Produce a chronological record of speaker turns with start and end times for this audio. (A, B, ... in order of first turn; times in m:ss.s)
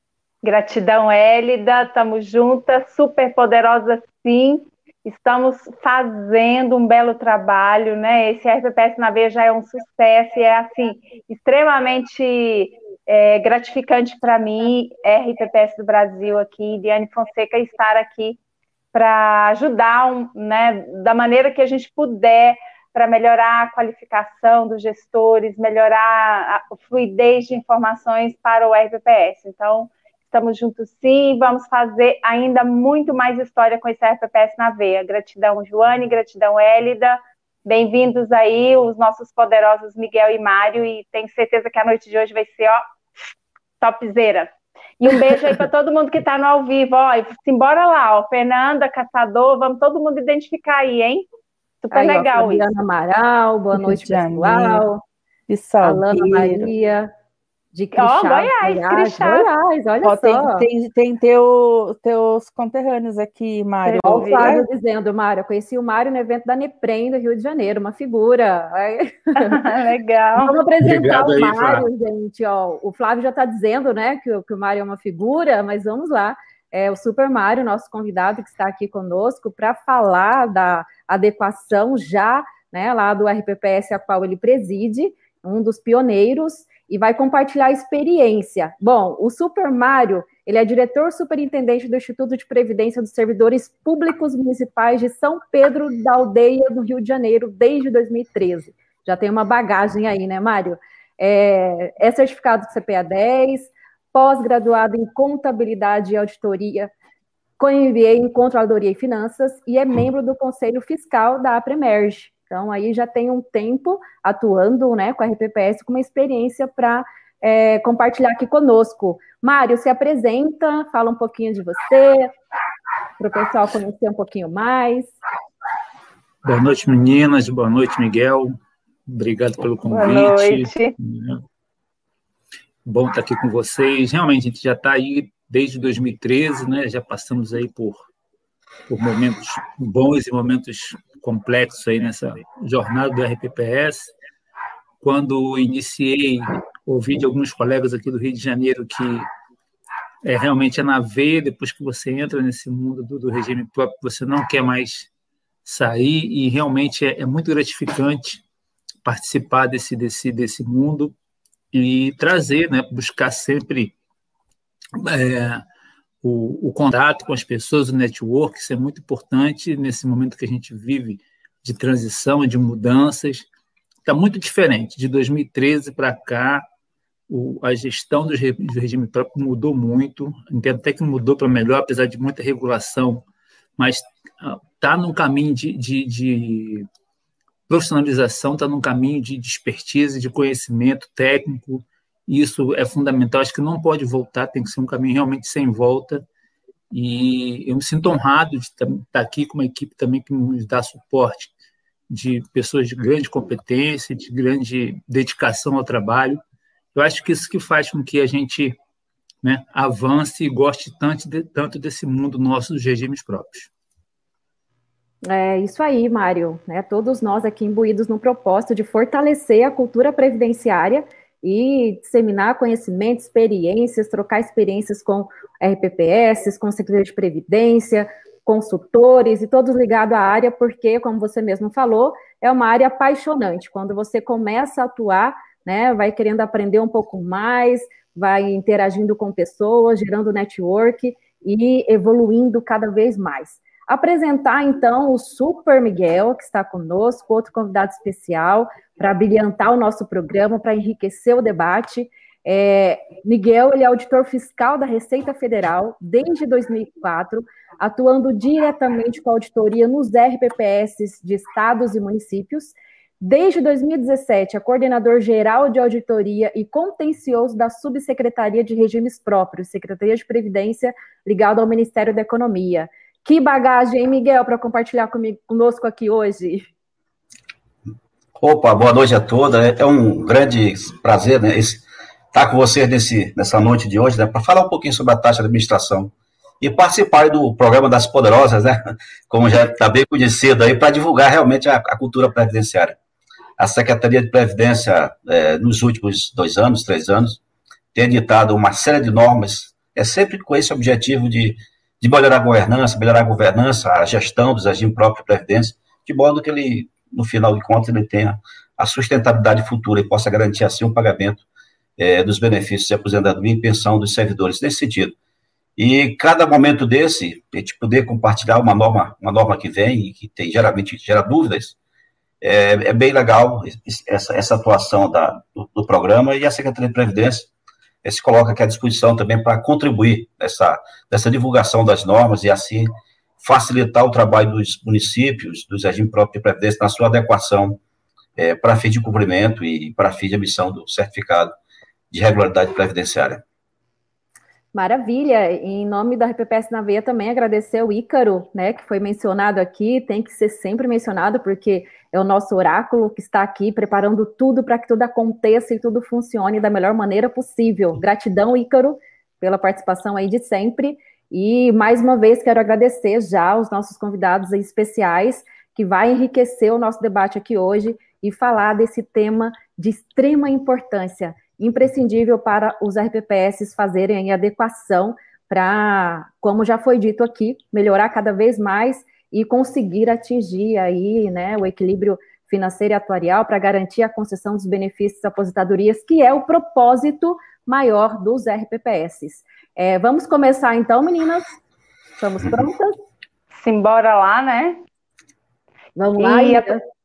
0:00.4-0:18.4 A
0:18.9-0:42.8 A
0:43.8-0:51.3 A
0:51.8-0:52.7 A
0:51.9-0:55.0 B
0:53.7-0:54.9 C
0:55.5-0:56.7 C
0:55.8-0:57.1 B
0:57.7-1:00.7 B
0:58.0-0:59.5 A
1:00.0-1:04.7 C
1:03.8-1:04.5 A
1:04.0-1:09.6 B
1:09.4-1:10.6 A
1:10.4-1:46.9 B
1:10.8-1:11.8 D
1:47.6-2:02.3 B
2:03.2-2:05.2 B
2:06.4-2:11.4 D
2:09.9-2:11.0 A
2:12.8-2:18.1 D
2:18.9-2:24.1 D
2:25.0-2:29.3 D
2:30.2-2:35.1 D
2:35.6-2:38.4 D
2:39.0-2:41.1 D
2:41.7-2:44.0 D
2:45.0-2:45.6 D
2:46.2-2:53.5 D
2:54.0-2:56.6 D
2:57.3-3:03.2 D
3:03.8-3:06.9 D
3:07.7-3:16.2 D
3:16.9-3:21.5 D
3:22.1-3:26.4 D
3:26.9-3:28.8 D
3:29.4-3:33.7 D
3:35.3-4:36.7 B
4:38.4-4:53.0 E
4:53.6-4:57.4 E
4:57.9-5:11.4 E
5:12.0-5:15.2 E
5:15.8-5:21.8 E
5:22.4-5:27.5 E
5:28.0-5:37.8 E
5:38.4-5:41.5 E
5:42.1-5:43.4 E
5:44.7-6:31.5 B
6:32.2-6:32.9 B
6:33.6-6:34.8 A
6:36.0-6:36.8 B
6:36.2-6:36.8 A